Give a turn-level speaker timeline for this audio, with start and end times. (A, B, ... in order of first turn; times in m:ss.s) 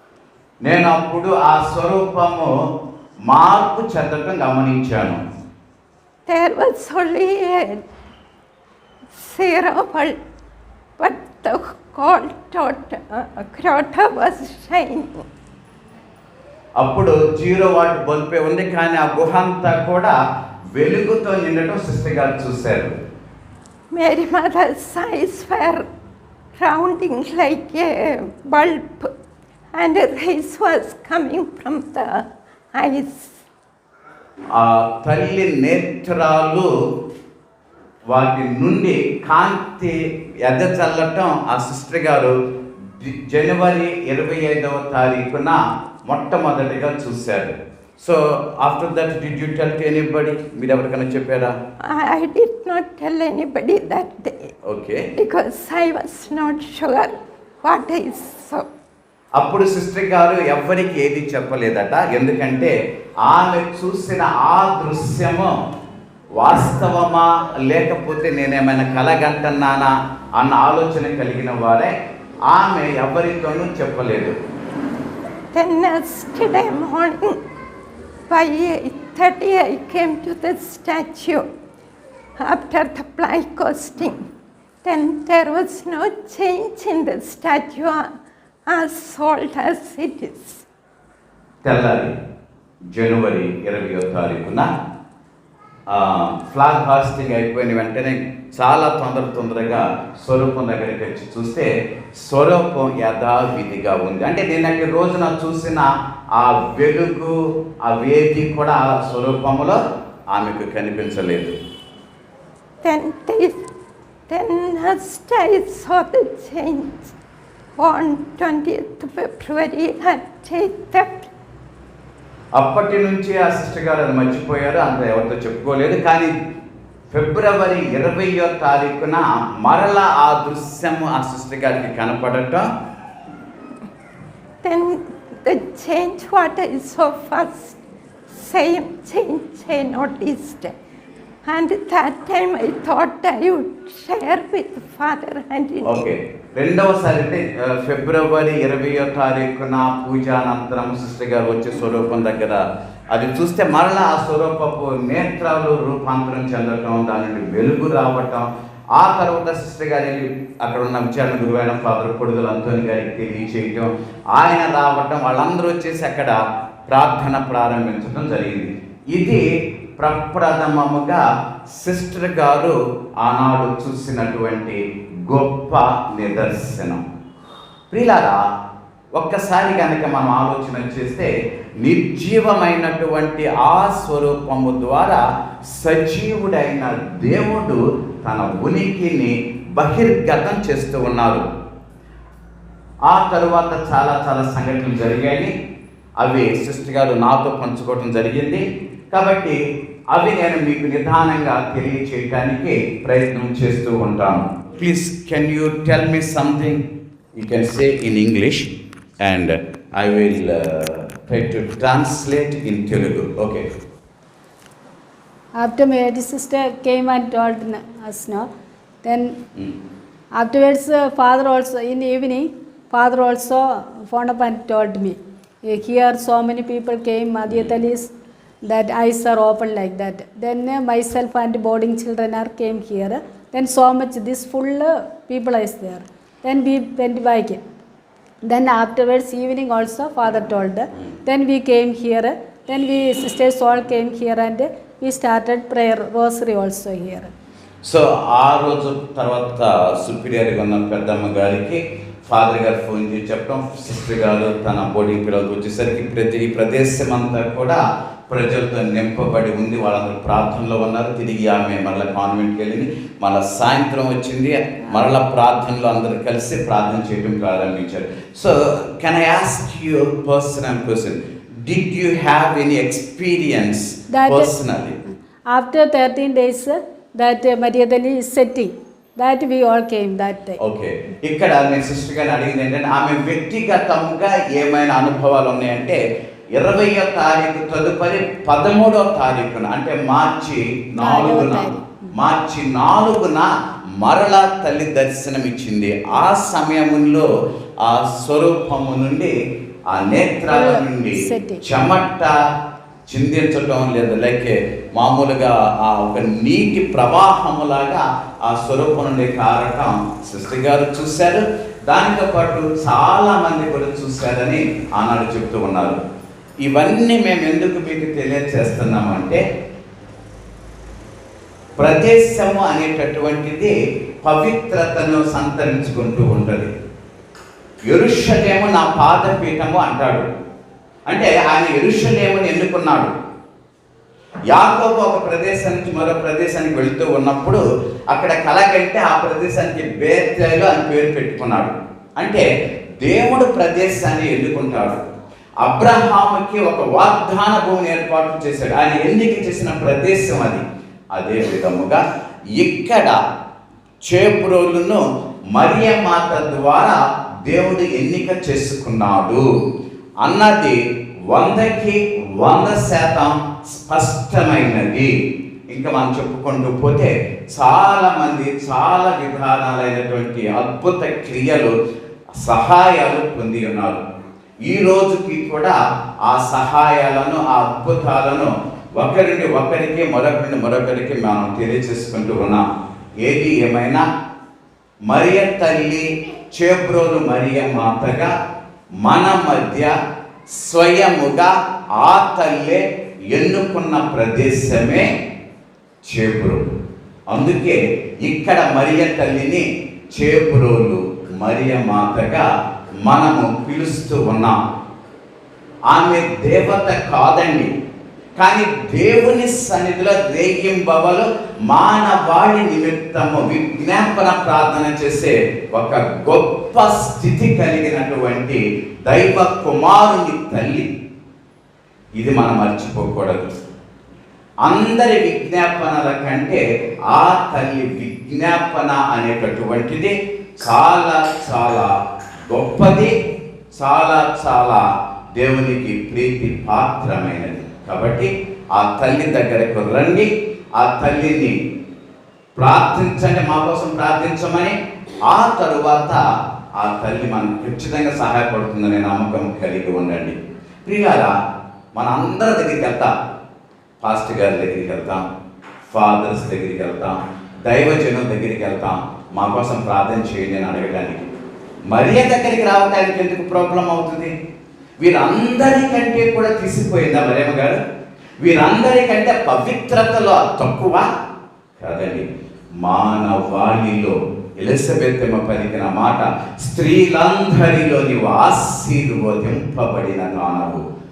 0:00.6-0:02.5 A
0:03.3-0:05.2 A
0:06.3-0:07.8 B
0:09.1-0:10.2 B
0:11.0-0:15.3 B
0:16.8-0:20.2 A
0:20.8-0:22.9 A
0:23.9-0:25.9 B
0:26.6-0:29.1 B
0:29.7-0:33.4 B
0:34.5-0:36.7 A
0:38.1-0:42.3 A
0:42.9-0:51.5 A
0:51.8-0:54.5 B
0:54.6-0:55.0 A
0:55.2-0:58.6 B
0:59.4-1:02.7 A
1:03.2-1:05.5 A
1:06.4-1:11.9 A
1:12.5-1:14.3 A
1:15.5-1:17.4 B
1:18.3-1:21.4 B
1:22.4-1:24.3 B
1:24.8-1:28.1 B
1:28.7-1:30.6 B
1:31.6-1:32.1 A
1:32.9-1:34.7 A
1:35.9-1:49.8 A
1:50.3-1:51.5 A
1:52.8-1:53.6 B
1:54.3-1:57.1 B
1:57.8-2:01.3 B
2:02.6-2:06.3 A
2:07.1-2:12.6 A
2:14.6-2:20.7 B
2:21.4-2:26.0 B
2:25.8-2:49.4 A
2:50.0-2:51.2 A
2:51.8-2:57.0 A
2:57.9-2:58.4 A
2:59.2-3:01.3 A
3:01.8-3:11.4 A
3:13.1-3:15.5 A
3:16.2-3:19.6 A
3:20.1-3:26.8 A
3:27.4-3:33.6 A
3:35.6-3:38.5 C
3:39.0-3:39.4 C
3:40.4-3:48.1 C
3:48.6-3:57.6 C
3:58.4-4:07.3 C
4:07.8-4:35.0 A
4:34.1-4:34.5 C
4:35.5-4:40.6 C
4:40.6-4:46.0 A
4:46.6-4:53.5 A
4:51.0-4:52.1 C
4:54.0-4:57.3 A
4:57.8-4:59.3 A
4:59.9-5:02.4 A
5:00.5-5:01.6 C
5:03.1-5:16.0 A
5:16.6-5:19.4 A
5:21.8-5:26.7 A
5:27.9-5:30.3 A
5:31.1-5:33.1 A
5:34.5-5:42.4 A
5:43.0-5:45.0 A
5:45.6-5:50.6 A
5:51.2-5:52.0 A
5:52.6-5:53.2 A
5:54.0-5:55.0 A
5:55.5-5:59.4 A
6:00.2-6:00.8 A
6:01.3-6:05.1 A
6:05.7-6:11.8 A
6:12.4-6:14.0 A
6:14.7-6:22.6 A
6:23.2-6:24.0 A
6:25.1-6:28.3 A
6:29.0-6:29.9 A
6:30.5-6:35.0 A
6:36.1-6:36.6 A
6:37.3-6:42.4 A
6:43.1-6:44.6 A
6:45.9-6:47.7 A
6:48.4-7:00.9 A
7:02.2-7:03.5 A
7:04.6-7:11.9 A
7:12.5-7:13.1 A
7:13.8-7:14.8 A
7:15.3-7:21.6 A
7:22.6-7:24.7 A
7:25.3-7:26.2 A
7:26.8-7:31.3 A
7:32.0-7:33.1 A
7:34.0-7:35.2 A
7:35.9-7:37.1 A
7:37.6-7:41.3 A
7:41.9-7:44.3 A
7:45.0-7:47.8 A
7:48.4-7:51.1 A
7:51.8-7:52.2 A
7:52.8-8:00.8 A